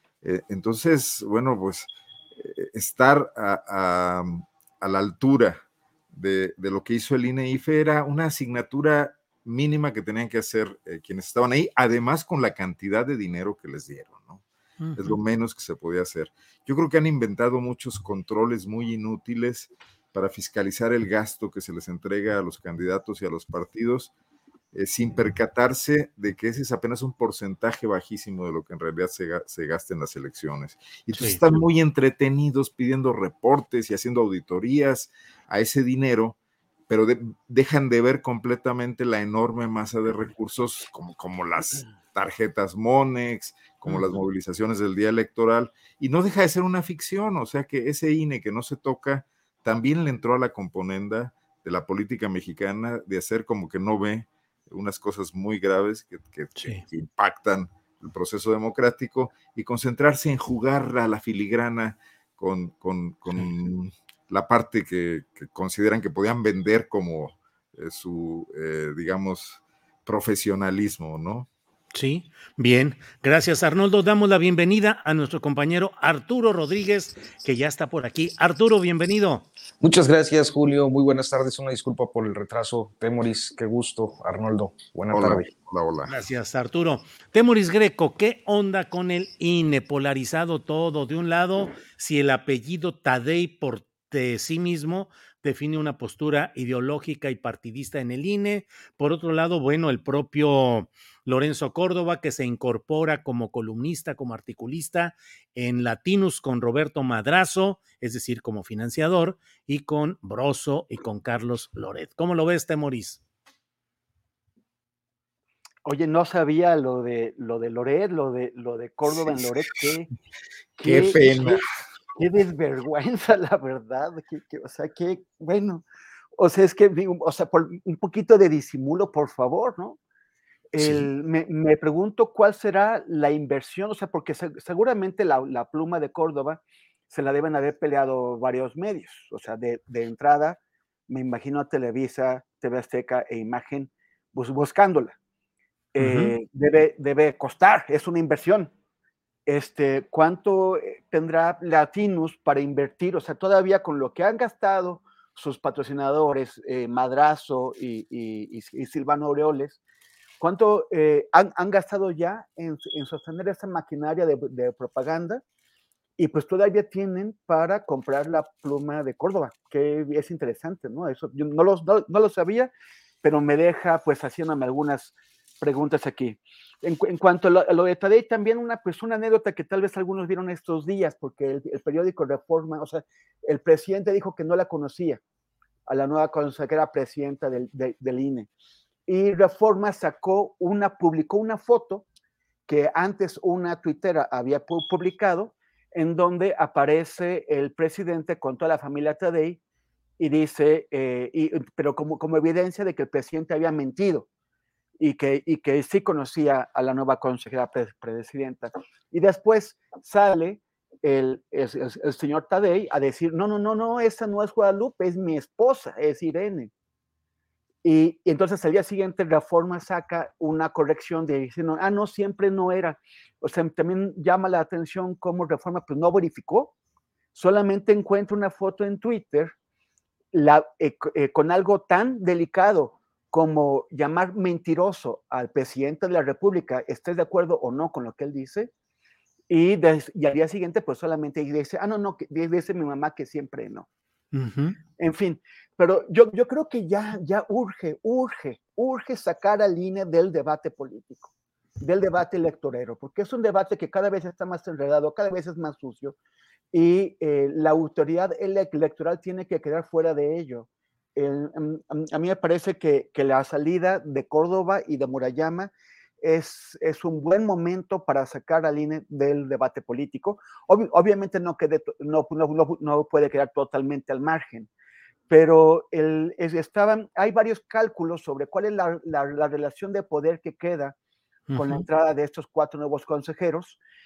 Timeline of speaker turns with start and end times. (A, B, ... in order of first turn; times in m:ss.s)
0:00.2-0:14.4 A
0:14.8-0:15.2 B
0:15.0-0:24.1 A
0:24.7-0:36.4 A
0:31.2-0:31.6 B
0:36.9-1:11.5 A
0:56.6-0:56.8 B
1:11.9-1:19.5 B
1:19.8-1:25.5 C
1:25.1-1:26.1 A
1:26.1-1:53.2 B
1:55.8-2:00.1 D
1:59.1-1:59.8 A
2:00.8-2:01.6 D
2:00.8-2:01.6 A
2:02.2-2:05.8 D
2:06.4-2:10.0 D
2:10.7-2:20.6 D
2:21.1-2:25.2 D
2:26.0-2:28.7 D
2:26.0-2:26.3 B
2:29.5-2:39.8 D
2:40.4-2:45.4 D
2:46.2-2:52.7 D
2:53.2-3:05.2 D
3:05.9-3:08.5 D
3:09.1-3:12.0 D
3:12.7-3:19.6 D
3:20.2-3:24.3 D
3:25.0-3:36.7 D
3:37.8-3:46.7 D
3:47.4-3:49.5 D
3:50.3-3:58.7 D
3:59.5-4:03.9 D
4:04.3-4:04.8 B
4:05.0-4:16.2 D
4:16.7-4:34.7 D
4:35.3-4:41.0 D
4:41.5-4:41.9 B
4:41.5-4:43.8 D